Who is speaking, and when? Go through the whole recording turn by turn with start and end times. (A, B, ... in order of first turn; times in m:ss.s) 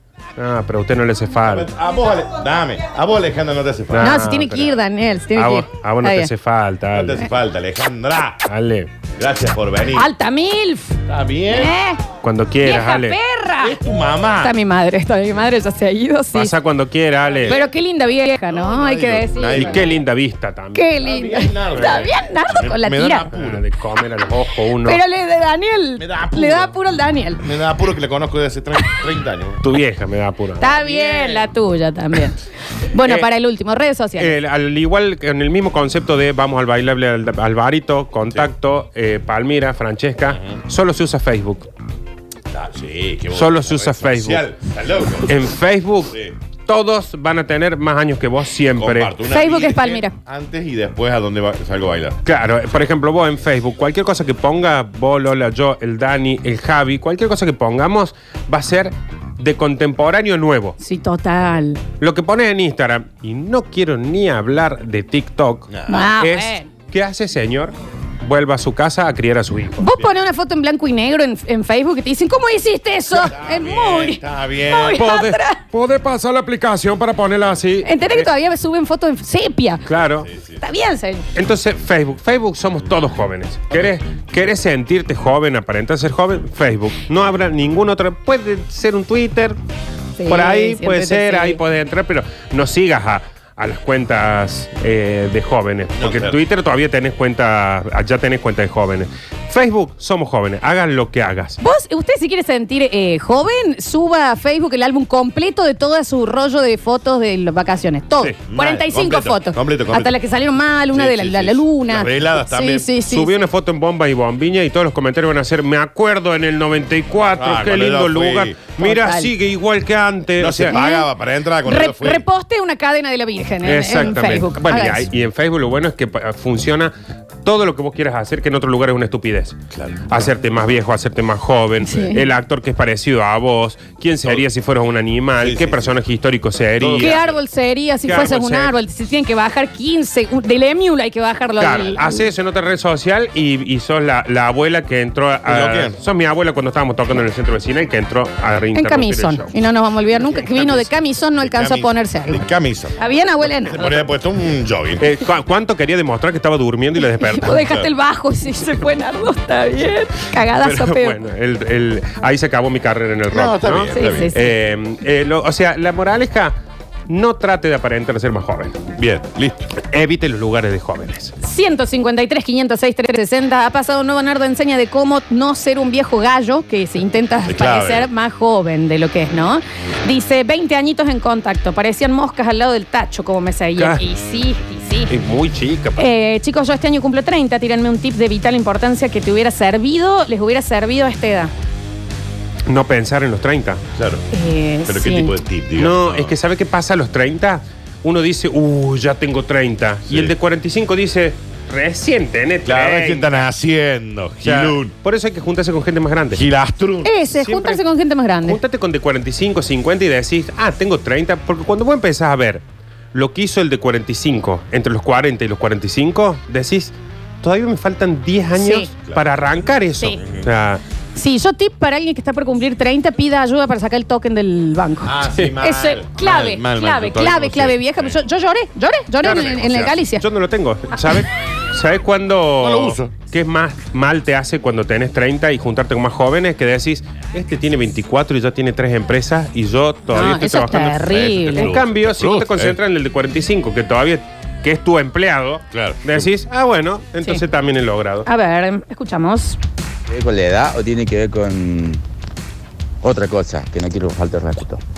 0:00.4-0:01.7 A
0:01.4-0:04.2 B
0:03.9-0:04.8 A
0:04.0-0:06.3 C
0:05.3-0:07.3 A
0:06.9-0:08.4 B
0:08.5-0:08.9 A
0:09.2-0:10.1 B
0:09.9-0:11.0 C
0:11.1-0:11.7 B
0:11.5-0:12.0 C
0:12.2-0:13.2 A
0:12.6-0:13.8 C
0:13.6-0:14.5 B
0:14.4-0:16.5 C
0:16.3-0:17.6 A
0:17.3-0:17.6 B
0:17.5-0:19.8 C
0:18.5-0:19.9 B
0:19.5-0:21.0 A
0:20.7-0:23.3 C
0:21.0-0:23.6 B
0:21.8-0:22.0 A
0:23.3-0:25.0 A
0:24.8-0:27.4 C
0:26.0-0:26.7 B
0:27.4-0:29.6 B
0:29.6-0:30.7 A
0:30.6-0:32.4 C
0:30.8-0:31.5 B
0:32.9-0:34.3 C
0:34.2-0:41.7 A
0:40.3-0:40.6 B
0:42.5-0:45.4 B
0:43.3-0:44.5 A
0:45.2-0:46.1 A
0:46.6-0:49.1 A
0:48.8-0:52.2 B
0:49.3-0:50.1 C
0:52.2-1:00.8 A
1:00.8-1:01.8 C
1:02.0-1:09.9 A
1:05.7-1:06.1 B
1:05.9-1:06.7 C
1:09.8-1:15.6 C
1:13.1-1:15.0 B
1:15.0-1:18.3 A
1:17.8-1:19.8 C
1:19.8-1:20.3 A
1:20.2-1:20.6 B
1:20.6-1:21.2 C
1:21.3-1:29.6 A
1:30.2-1:31.6 C
1:30.3-1:41.6 A
1:36.0-1:36.4 B
1:41.6-1:53.3 C
1:48.5-1:50.1 B
1:50.9-1:52.9 B
1:53.1-2:00.8 A
1:57.4-1:58.6 B
1:58.8-1:59.3 C
2:00.4-2:02.2 B
2:00.7-2:01.1 C
2:01.6-2:05.0 C
2:03.6-2:06.9 A
2:07.4-2:09.6 A
2:09.7-2:10.3 B
2:10.1-2:17.2 A
2:11.8-2:12.2 C
2:15.4-2:16.0 B
2:16.8-2:17.3 B
2:17.0-2:22.2 C
2:18.0-2:18.7 A
2:21.6-2:29.5 A
2:25.4-2:26.0 B
2:28.7-2:32.4 C
2:30.4-2:30.8 B
2:31.4-2:33.0 B
2:33.0-2:34.1 C
2:33.5-2:35.1 B
2:35.0-2:37.6 A
2:37.2-2:41.2 C
2:37.6-2:37.9 B
2:40.6-2:46.6 A
2:43.3-2:44.3 B
2:43.9-2:44.5 C
2:47.1-2:48.8 A
2:49.0-2:49.7 B
2:49.9-2:51.3 A
2:51.4-3:05.1 C
2:57.5-2:58.1 B
3:05.1-3:06.0 A
3:06.0-3:11.5 C
3:12.7-3:13.8 A
3:13.9-3:14.2 B
3:14.3-3:15.3 C
3:14.9-3:16.4 B
3:15.8-3:23.4 A
3:20.1-3:20.3 B
3:22.6-3:24.9 B
3:24.4-3:26.4 A
3:26.3-3:27.1 B
3:27.0-3:28.6 C
3:27.3-3:27.8 A
3:28.4-3:32.6 A
3:33.1-3:40.8 A
3:38.6-3:38.9 C
3:39.1-3:40.5 B
3:41.1-3:50.2 C
3:45.0-3:48.1 B
3:49.2-4:08.3 A
3:49.3-3:49.8 B
3:52.6-3:53.2 B
4:00.1-4:01.7 C
4:01.0-4:02.8 B
4:05.7-4:06.3 B
4:08.2-4:09.6 C
4:10.1-4:12.0 D
4:13.0-4:14.8 D